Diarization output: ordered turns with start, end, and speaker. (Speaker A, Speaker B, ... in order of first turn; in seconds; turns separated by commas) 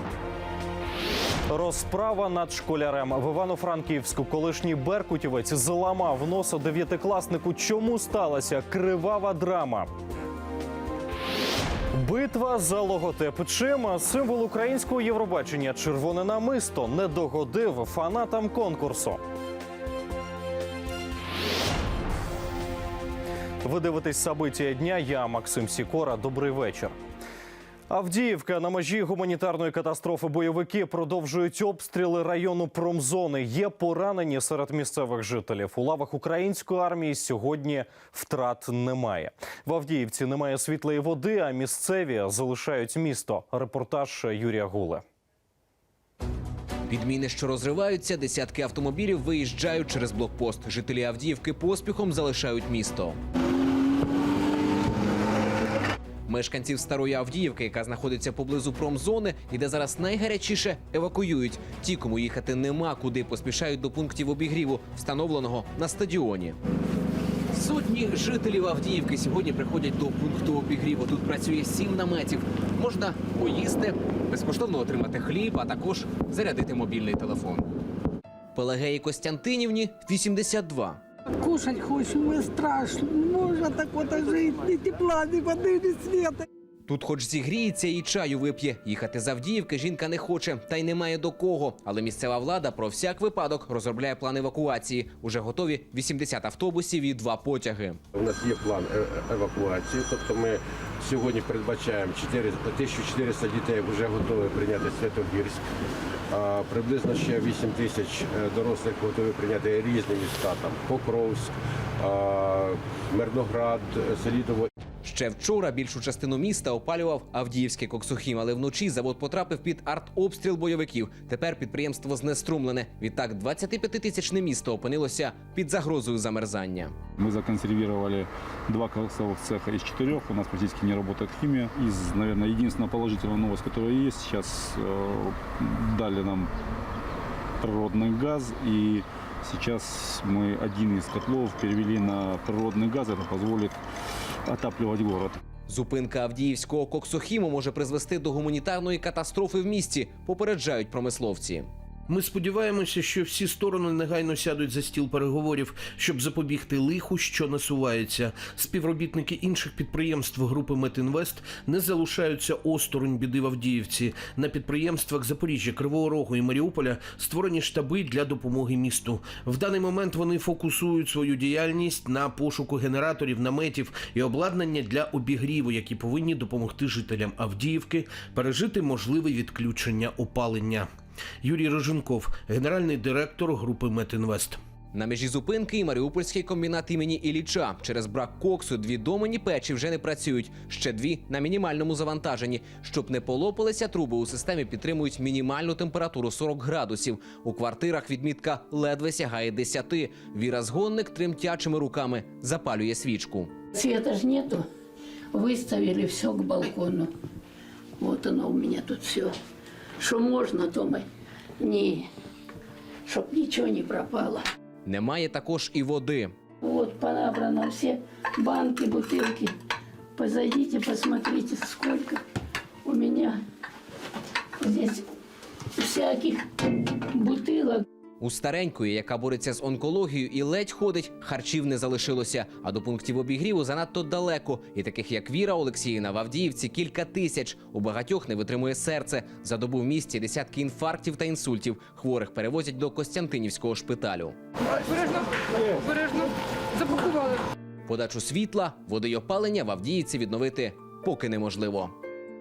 Speaker A: 1.5-9.9, Speaker A: 11.9-19.2, Speaker A: 23.6-27.0, Speaker A: 27.9-45.0, Speaker B: 46.9-53.2, Speaker B: 56.3-66.6, Speaker B: 67.5-77.7, Speaker B: 78.5-81.0, Speaker C: 81.4-86.4, Speaker B: 86.9-98.0, Speaker D: 98.1-105.6, Speaker D: 106.3-114.7, Speaker B: 115.0-126.9, Speaker E: 127.2-136.5, Speaker E: 137.6-143.8, Speaker E: 144.5-145.4, Speaker B: 145.7-151.7, Speaker F: 152.1-180.9, Speaker F: 181.4-184.6, Speaker B: 184.9-203.5, Speaker G: 203.7-204.7, Speaker G: 205.3-207.1, Speaker G: 208.0-209.3, Speaker G: 210.0-211.1, Speaker G: 211.6-212.1, Speaker G: 213.1-214.4, Speaker B: 214.8-216.3, Speaker G: 216.6-219.5, Speaker G: 220.2-222.2, Speaker G: 222.8-223.4, Speaker G: 224.6-225.0, Speaker G: 225.8-226.4, Speaker G: 227.1-227.8, Speaker B: 228.2-244.3, Speaker B: 247.8-251.9